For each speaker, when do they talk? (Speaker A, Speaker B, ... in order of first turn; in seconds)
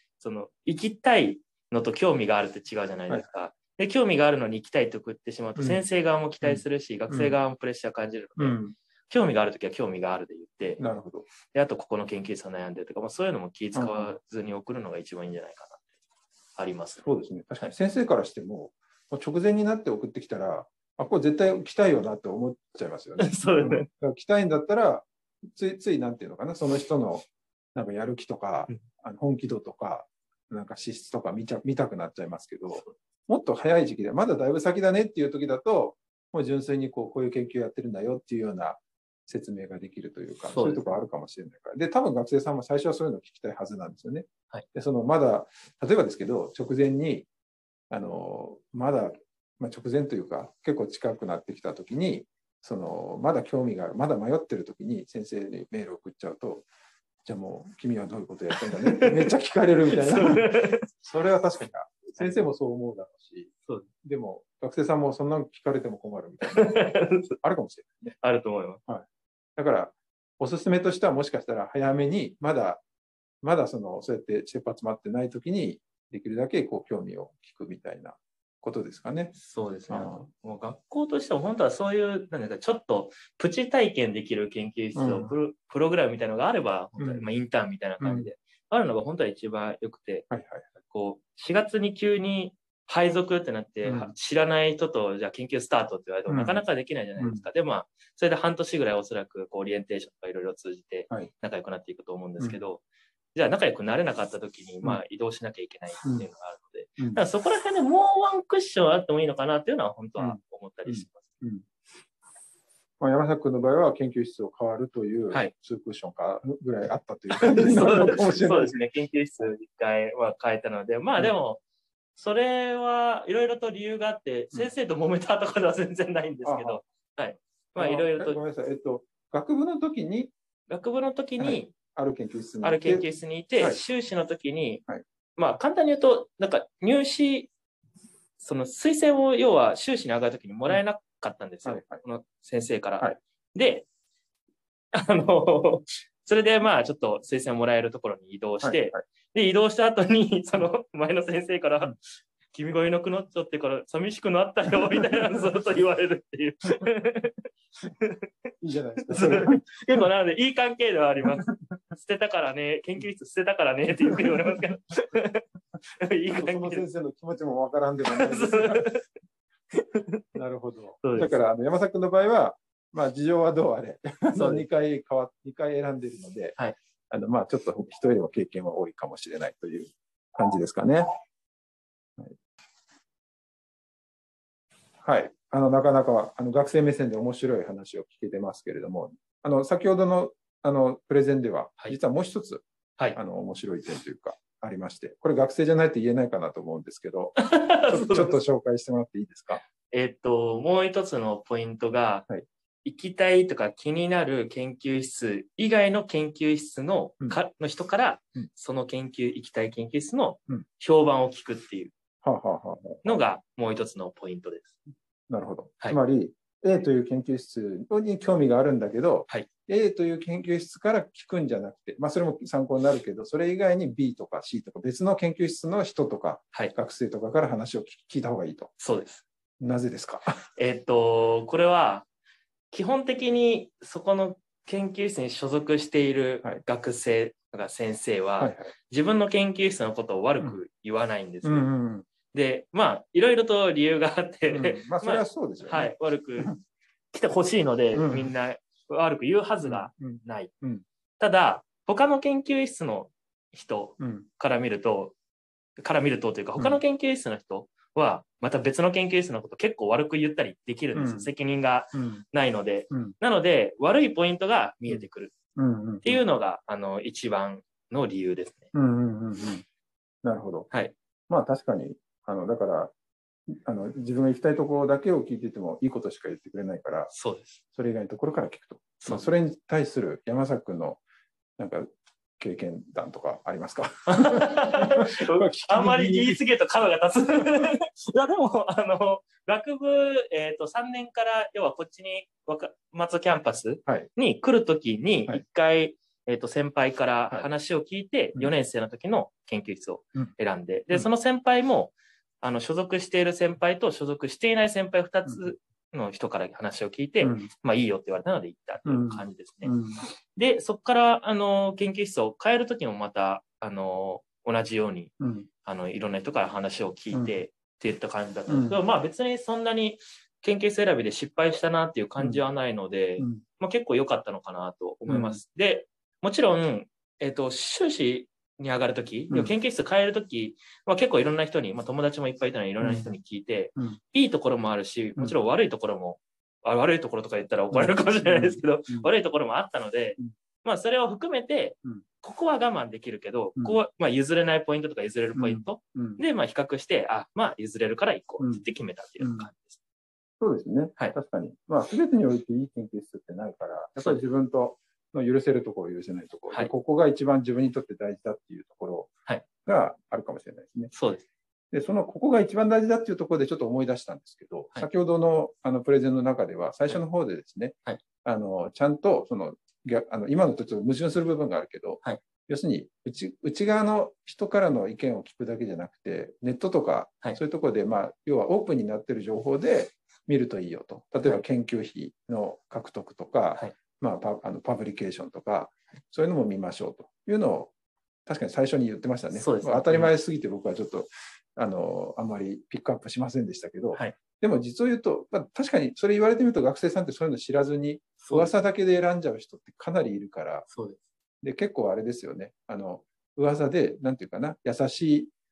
Speaker A: 0.2-8.6, 9.1-10.8, 11.5-15.8, 16.6-17.1, 23.2-23.9, 40.5-40.9, 58.5-59.2, 59.9-60.9, 62.2-62.5, 66.4-67.4, 68.2-68.8, 79.3-90.3, 90.9-102.8, 103.3-111.3, 117.3-121.6, 122.2-128.4, 130.7-131.8, 132.6-134.8, 135.4-137.5, 138.4-143.9, 144.9-152.0, 152.5-157.5, 158.0-158.3, 159.1-166.9, 168.1-169.1, 169.7-170.4, 171.0-171.3, 174.3-174.7, 197.4-198.4, 199.9-202.3, 202.8-211.9, 213.0-214.8, 228.8-229.2, 230.6-232.1, 232.7-241.7, 242.3-246.5, 247.1-250.5, 251.2-255.2, 255.8-265.3, 266.0-268.7, 270.7-270.9, 277.1-277.6, 279.0-279.3, 284.1-309.8, 310.4-315.1, 315.6-349.8, 360.9-361.3, 389.3-390.1, 398.2-398.5, 400.7-401.0
Speaker B: 5.6-5.8, 6.4-7.4, 8.4-8.8, 10.8-11.3, 13.8-14.2, 17.0-47.3, 47.9-56.7, 57.2-63.5, 64.0-68.2, 69.6-72.8, 73.4-79.3, 79.9-80.3, 85.0-85.3, 87.0-87.3, 88.0-88.3, 90.3-90.7, 93.8-94.1, 96.3-96.6, 97.2-97.5, 110.2-111.7, 113.0-118.8, 126.5-126.8, 127.8-130.3, 131.4-133.0, 141.7-142.0, 148.6-149.0, 154.8-155.5, 158.6-160.0, 161.2-161.8, 164.0-164.6, 166.3-168.9, 170.3-176.6, 177.1-181.1, 185.0-192.6, 193.2-199.6, 212.2-213.2, 215.3-228.7, 229.6-230.4, 238.4-238.7, 241.4-242.1, 244.5-246.6, 247.9-248.3, 249.6-250.8, 254.0-254.3, 260.9-261.3, 261.9-262.2, 264.9-266.2, 268.7-269.6, 270.2-270.7, 271.3-272.9, 273.5-277.1, 277.7-281.0, 281.6-286.4, 305.3-305.5, 307.2-307.5, 308.9-310.1, 315.2-315.5, 317.1-317.4, 318.5-318.8, 323.2-323.4, 325.1-325.4, 332.8-333.1, 337.7-339.1, 345.4-346.2, 348.4-348.6, 349.2-349.5, 350.4-359.1, 359.6-360.9, 361.7-387.7, 388.3-400.7, 401.4-405.3